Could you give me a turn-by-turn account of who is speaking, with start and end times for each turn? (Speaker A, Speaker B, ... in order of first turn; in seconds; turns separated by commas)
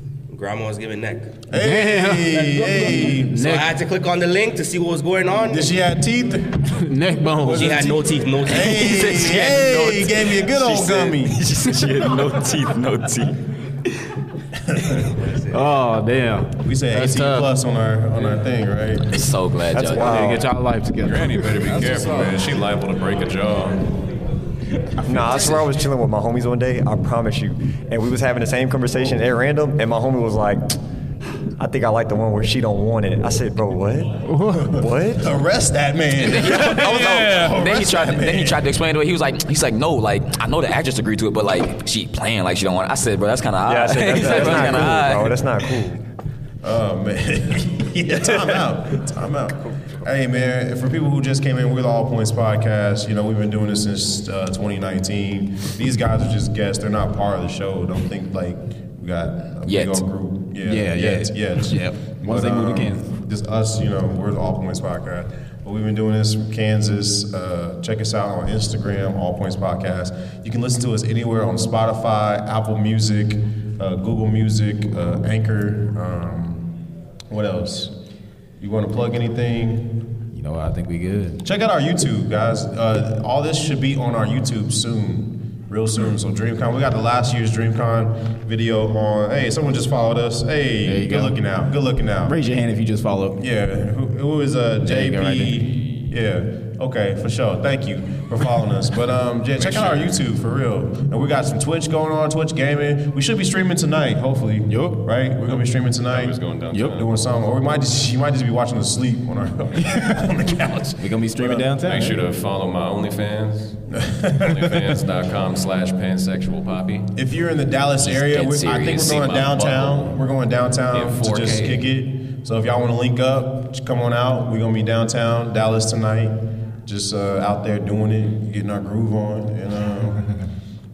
Speaker A: 0.3-1.4, Speaker B: 1.5-3.4, Speaker C: 1.5-2.4, Speaker A: 2.4-5.7, Speaker C: 3.3-3.7, Speaker B: 5.5-6.7, Speaker C: 6.7-7.8, Speaker B: 7.4-11.4, Speaker A: 7.5-9.4, Speaker D: 8.6-10.1, Speaker A: 10.6-11.2, Speaker D: 11.2-13.3, Speaker B: 14.7-15.1, Speaker A: 15.1-15.6, Speaker C: 15.5-17.5, Speaker B: 16.6-19.2, Speaker D: 19.1-20.2, Speaker E: 19.7-20.5, Speaker C: 20.0-21.7, Speaker F: 21.0-23.8, Speaker B: 21.7-22.4, Speaker E: 25.0-30.8, Speaker D: 25.2-25.7, Speaker E: 31.6-35.3, Speaker C: 34.3-34.7, Speaker B: 34.5-38.6, Speaker D: 36.1-45.5, Speaker E: 43.6-46.0, Speaker B: 46.6-76.8, Speaker D: 59.6-60.0, Speaker G: 60.6-63.1, Speaker B: 77.3-77.9, Speaker B: 78.6-79.9, Speaker G: 80.3-81.4, Speaker B: 81.4-92.4, Speaker G: 90.8-91.4, Speaker G: 92.2-93.4, Speaker B: 93.3-111.7, Speaker G: 94.8-95.6, Speaker G: 104.7-105.0, Speaker F: 106.1-107.1, Speaker G: 111.0-112.2, Speaker F: 111.8-113.8, Speaker B: 113.9-115.0, Speaker F: 114.4-117.1, Speaker B: 117.1-130.3, Speaker D: 118.0-119.3, Speaker F: 119.0-120.1, Speaker F: 120.9-121.8